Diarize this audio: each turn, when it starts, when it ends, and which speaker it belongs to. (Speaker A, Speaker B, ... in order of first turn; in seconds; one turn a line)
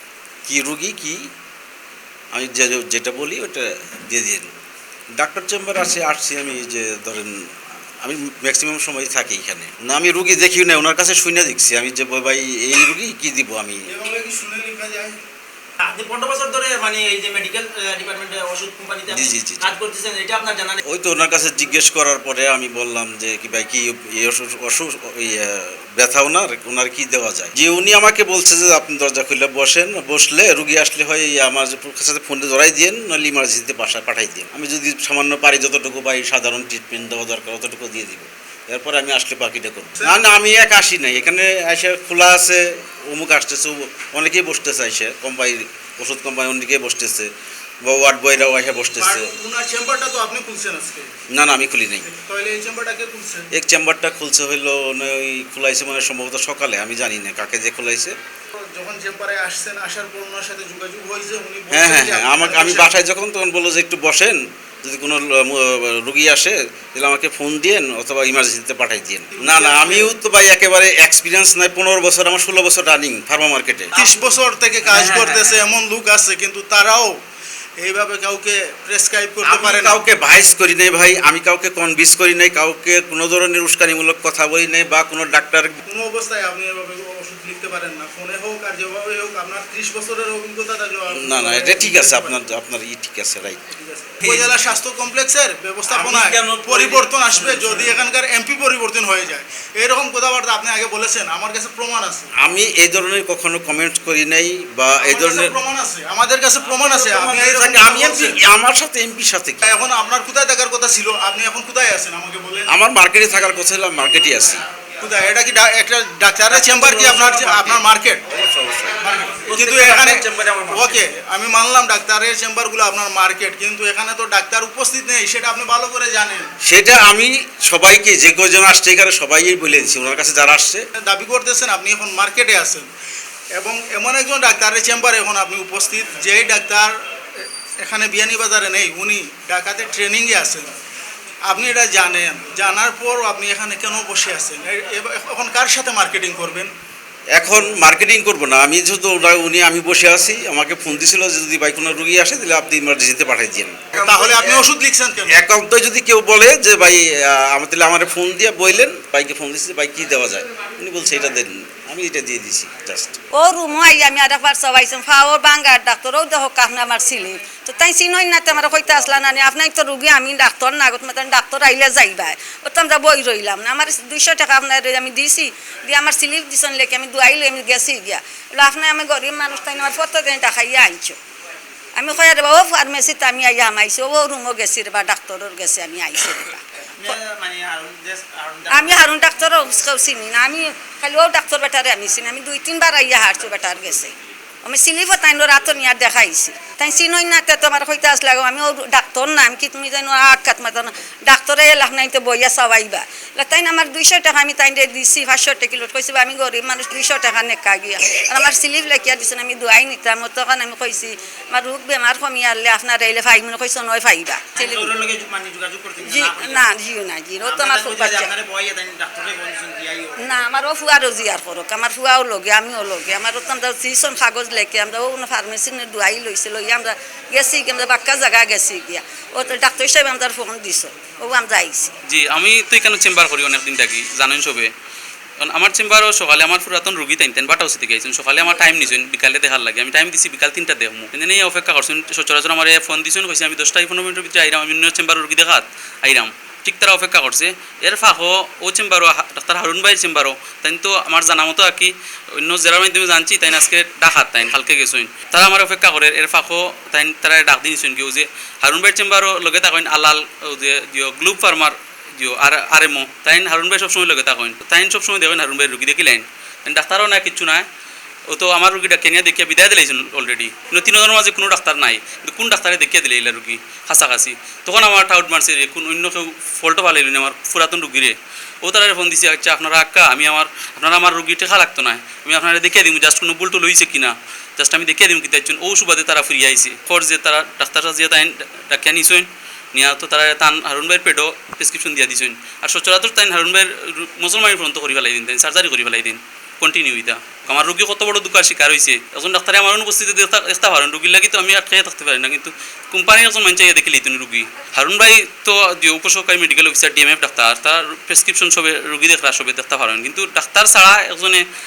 Speaker A: 0.4-1.3
Speaker A: 2.3-4.5
Speaker A: 5.2-7.5
Speaker A: 8.0-13.8
Speaker B: 13.9-15.2
Speaker C: 15.8-20.8
Speaker A: 19.1-19.8
Speaker A: 20.8-47.3
Speaker A: 47.8-49.3
Speaker B: 49.0-51.1
Speaker A: 51.3-52.1
Speaker B: 52.0-53.5
Speaker A: 53.5-58.1
Speaker B: 58.6-62.9
Speaker A: 61.7-73.9
Speaker B: 69.3-70.1
Speaker B: 73.9-77.2
Speaker A: 74.9-75.5
Speaker B: 77.8-80.0
Speaker A: 79.4-85.8
Speaker B: 85.8-92.4
Speaker A: 91.1-93.7
Speaker B: 93.7-102.3
Speaker A: 95.9-97.8
Speaker C: 96.6-96.8
Speaker A: 102.4-105.5
Speaker B: 105.0-108.4
Speaker A: 106.8-109.6
Speaker B: 109.6-112.7
Speaker A: 112.7-114.6
Speaker B: 115.0-118.2
Speaker A: 116.5-121.0
Speaker B: 119.0-126.5
Speaker A: 126.6-130.9
Speaker B: 130.9-132.9
Speaker B: 133.5-136.9
Speaker B: 137.8-140.7
Speaker B: 141.4-146.7
Speaker A: 147.3-154.0
Speaker B: 154.0-155.4
Speaker A: 155.3-163.2
Speaker D: 163.3-181.2
Speaker D: 181.9-187.1
Speaker C: 186.9-189.1
Speaker D: 188.7-214.9
Speaker C: 214.6-216.7
Speaker D: 216.0-218.3
Speaker C: 217.4-220.3
Speaker D: 220.2-231.9
Speaker E: 232.1-234.7
Speaker E: 235.4-267.6
Speaker E: 268.3-311.4